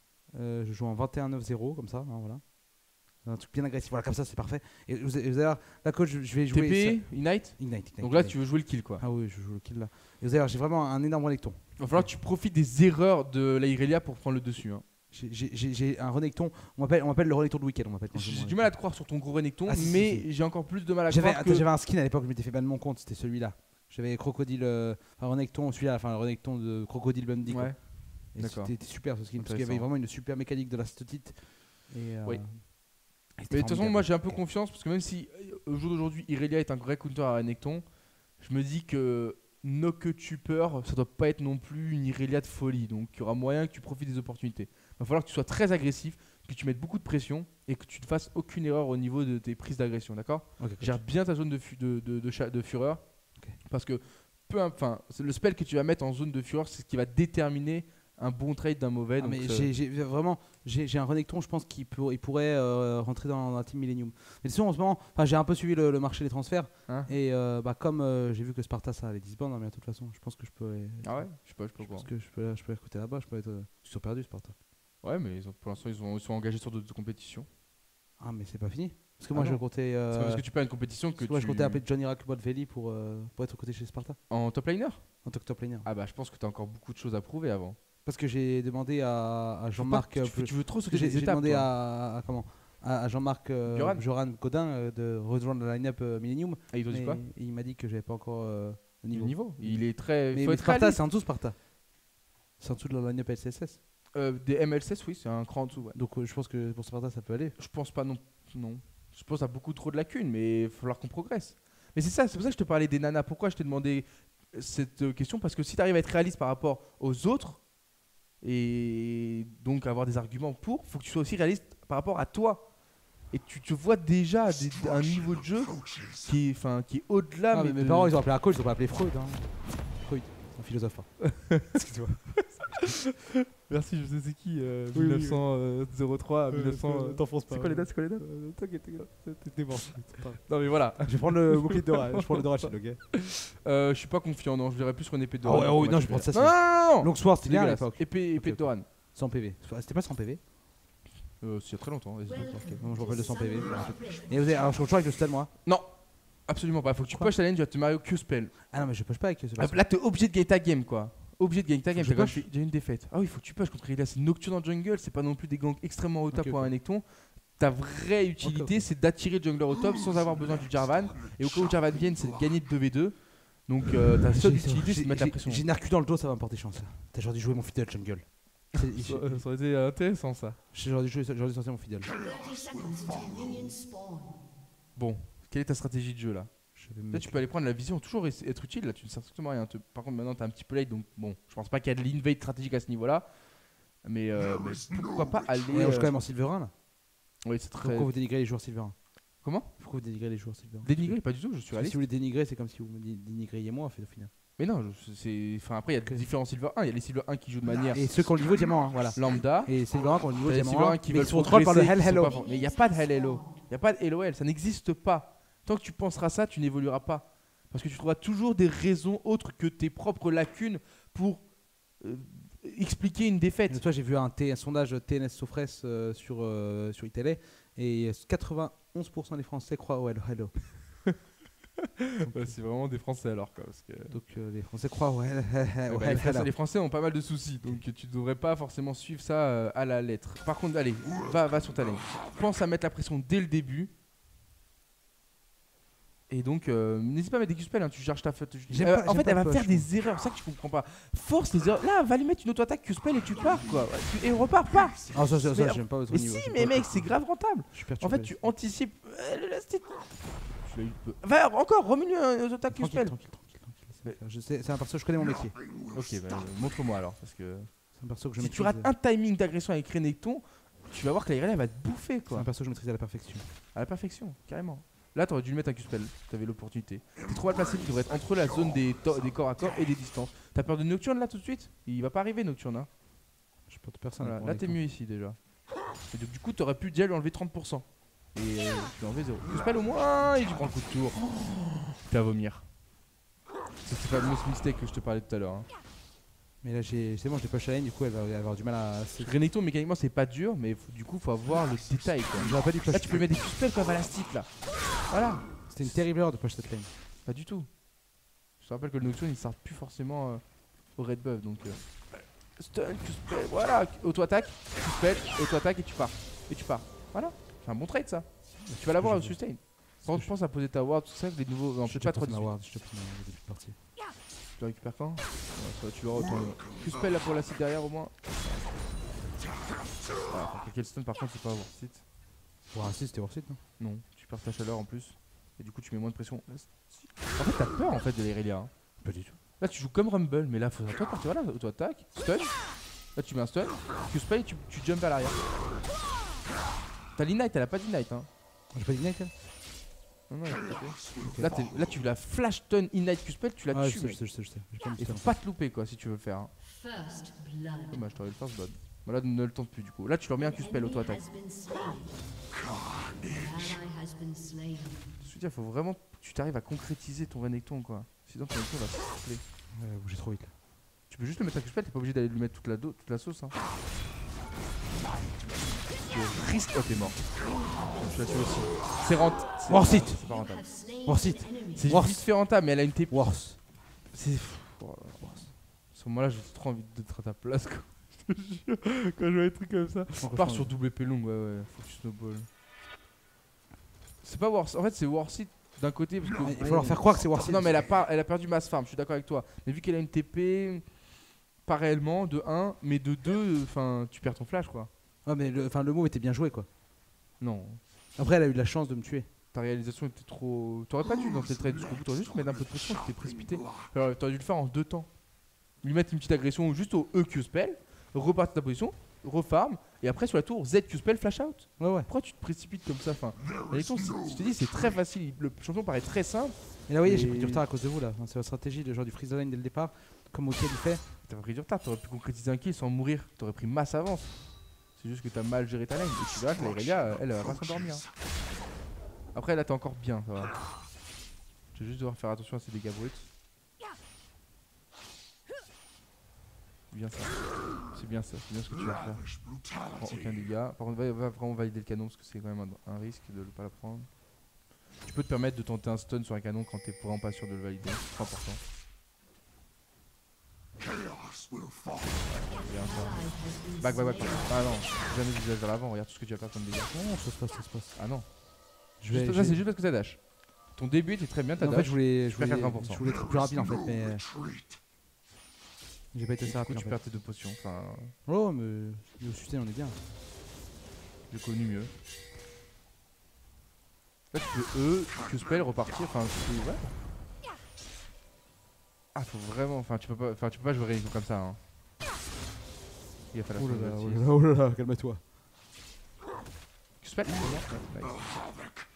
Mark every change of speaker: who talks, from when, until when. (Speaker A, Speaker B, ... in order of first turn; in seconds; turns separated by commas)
Speaker A: 0.3-12.1, Speaker B: 6.5-9.0, Speaker B: 11.8-14.8, Speaker A: 15.1-18.9, Speaker B: 18.1-21.6, Speaker A: 19.6-20.4, Speaker A: 21.1-32.7, Speaker B: 27.5-29.9, Speaker B: 32.2-32.7, Speaker A: 33.3-34.4, Speaker B: 33.5-59.7, Speaker A: 50.6-51.0, Speaker A: 59.2-74.5, Speaker B: 66.9-67.1, Speaker B: 71.0-72.1, Speaker B: 75.0-77.5, Speaker A: 78.2-84.2, Speaker B: 79.3-81.8, Speaker B: 84.3-85.2, Speaker A: 85.2-85.9, Speaker B: 85.8-87.8, Speaker A: 88.0-101.7, Speaker B: 89.7-91.7, Speaker B: 93.7-94.0, Speaker B: 96.7-97.2, Speaker B: 99.1-101.0, Speaker A: 102.6-103.8, Speaker B: 104.1-106.0, Speaker A: 105.9-107.5, Speaker B: 107.6-117.7, Speaker B: 118.4-128.2, Speaker A: 127.5-132.9, Speaker B: 131.2-131.7, Speaker B: 132.4-132.7, Speaker B: 133.6-138.2, Speaker A: 134.9-135.5, Speaker A: 136.5-143.0, Speaker B: 140.4-142.4, Speaker B: 143.2-148.9, Speaker A: 145.4-150.4, Speaker B: 151.4-152.8, Speaker C: 152.3-154.9, Speaker A: 152.3-155.5, Speaker B: 155.6-158.7, Speaker A: 157.0-157.3, Speaker A: 158.7-159.8, Speaker B: 159.6-175.6, Speaker A: 161.9-162.5, Speaker A: 166.3-166.7, Speaker A: 168.4-168.9, Speaker A: 174.3-179.4, Speaker B: 178.8-180.6, Speaker A: 180.7-182.1, Speaker C: 182.2-184.4, Speaker B: 184.9-196.2, Speaker A: 186.8-187.4, Speaker A: 195.7-196.7, Speaker B: 197.4-198.1, Speaker A: 197.8-204.3, Speaker B: 199.4-199.7, Speaker B: 200.8-202.0, Speaker B: 204.6-208.1, Speaker A: 207.9-212.3, Speaker B: 209.1-223.8, Speaker C: 212.1-213.6, Speaker A: 223.7-231.0, Speaker B: 232.0-234.2, Speaker A: 232.2-232.6, Speaker A: 234.1-236.5, Speaker B: 235.9-243.9, Speaker B: 246.3-263.2, Speaker A: 248.7-249.9, Speaker A: 255.1-258.4, Speaker A: 262.7-265.6, Speaker B: 265.9-272.5, Speaker A: 267.9-268.9, Speaker A: 272.3-273.5, Speaker B: 273.7-282.9, Speaker A: 283.7-284.8, Speaker B: 284.2-292.7, Speaker B: 293.8-295.7, Speaker A: 296.6-299.4, Speaker B: 299.2-306.0, Speaker A: 302.4-303.3, Speaker A: 305.7-306.9, Speaker B: 307.2-307.9, Speaker B: 308.5-322.5, Speaker A: 318.7-320.3, Speaker A: 321.9-323.8, Speaker B: 324.6-328.9, Speaker B: 330.3-332.0, Speaker A: 332.7-333.6, Speaker B: 333.8-338.7, Speaker A: 339.0-339.4, Speaker B: 339.6-345.4, Speaker B: 347.1-348.3, Speaker A: 348.7-349.3, Speaker B: 350.3-354.2, Speaker A: 351.3-351.7, Speaker A: 353.7-355.3, Speaker B: 355.0-356.5, Speaker C: 356.6-358.2, Speaker B: 357.9-361.2, Speaker C: 360.4-362.2, Speaker C: 363.2-365.1, Speaker B: 365.2-369.4, Speaker A: 369.7-370.5, Speaker B: 371.1-373.5, Speaker B: 375.4-380.7, Speaker A: 379.7-380.2, Speaker C: 380.0-381.9, Speaker A: 381.0-382.3, Speaker B: 381.7-392.5, Speaker A: 383.1-383.6, Speaker A: 390.2-390.7, Speaker B: 394.2-401.0, Speaker A: 396.4-397.8, Speaker B: 401.6-404.9, Speaker A: 405.2-406.7, Speaker B: 407.4-407.8, Speaker A: 408.1-409.3, Speaker B: 409.5-427.6, Speaker A: 421.8-422.1, Speaker A: 426.9-431.0, Speaker B: 431.2-438.1, Speaker B: 439.3-440.6, Speaker B: 441.7-443.2, Speaker B: 446.9-454.3, Speaker B: 455.0-458.6, Speaker B: 462.2-466.9, Speaker C: 462.5-464.9, Speaker A: 466.9-468.0, Speaker B: 467.9-473.0, Speaker A: 469.0-469.6, Speaker A: 471.6-474.2, Speaker A: 476.1-477.0, Speaker B: 476.4-478.1, Speaker A: 478.2-480.0, Speaker B: 481.3-481.9, Speaker B: 484.3-487.0, Speaker B: 489.1-491.6, Speaker B: 493.3-494.3, Speaker A: 493.5-495.2, Speaker B: 497.0-498.2